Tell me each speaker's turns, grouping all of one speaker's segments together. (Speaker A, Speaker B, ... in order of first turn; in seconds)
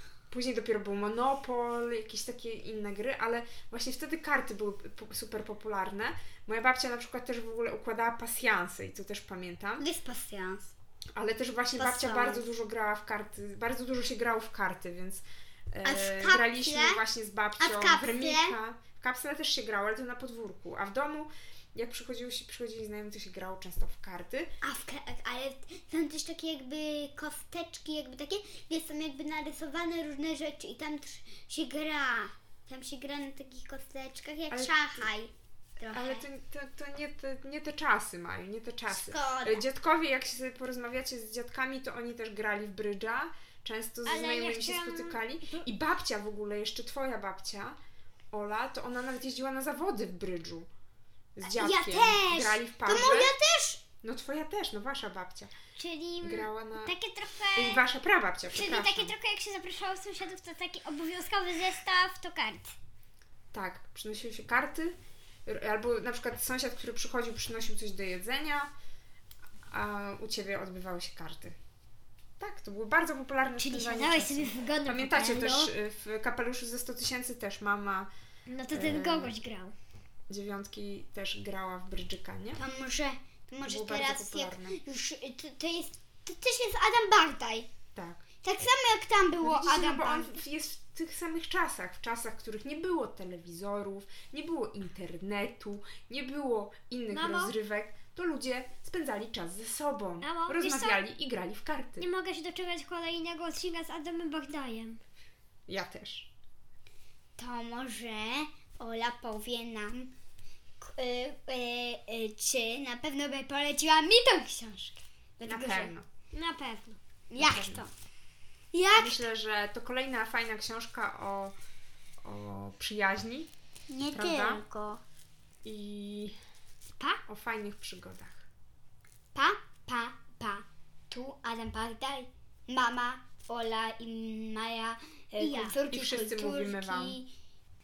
Speaker A: 0.3-9.8, 11.2-24.5, 34.5-35.1, 35.9-47.8, 48.3-50.7, 51.4-53.3, 54.0-55.5, 56.2-56.9, 57.5-59.1, 63.5-65.0, 65.5-68.7, 69.7-71.6, 72.4-78.1, 78.7-79.4, 80.3-82.6, 83.6-84.8, 88.0-88.2, 89.4-102.1, 105.7-106.3, 115.5-116.1, 117.4-117.9, 118.9-121.5, 122.2-123.5, 124.1-124.6, 125.7-126.3, 127.3-128.5, 135.9-137.2
Speaker B: 9.8-10.7, 11.8-12.5, 15.8-17.0, 17.6-18.6, 24.6-36.3, 38.9-39.6, 51.5-53.8, 82.6-87.7, 88.4-90.4, 107.4-110.1, 110.8-115.9, 117.3-117.9, 118.7-119.3, 123.9-125.0, 129.3-137.3
Speaker C: 44.0-45.7, 55.8-57.8, 58.5-62.7, 73.6-75.7, 78.5-79.7, 97.1-97.5, 100.2-101.0, 102.0-105.0, 116.3-117.0, 135.4-135.8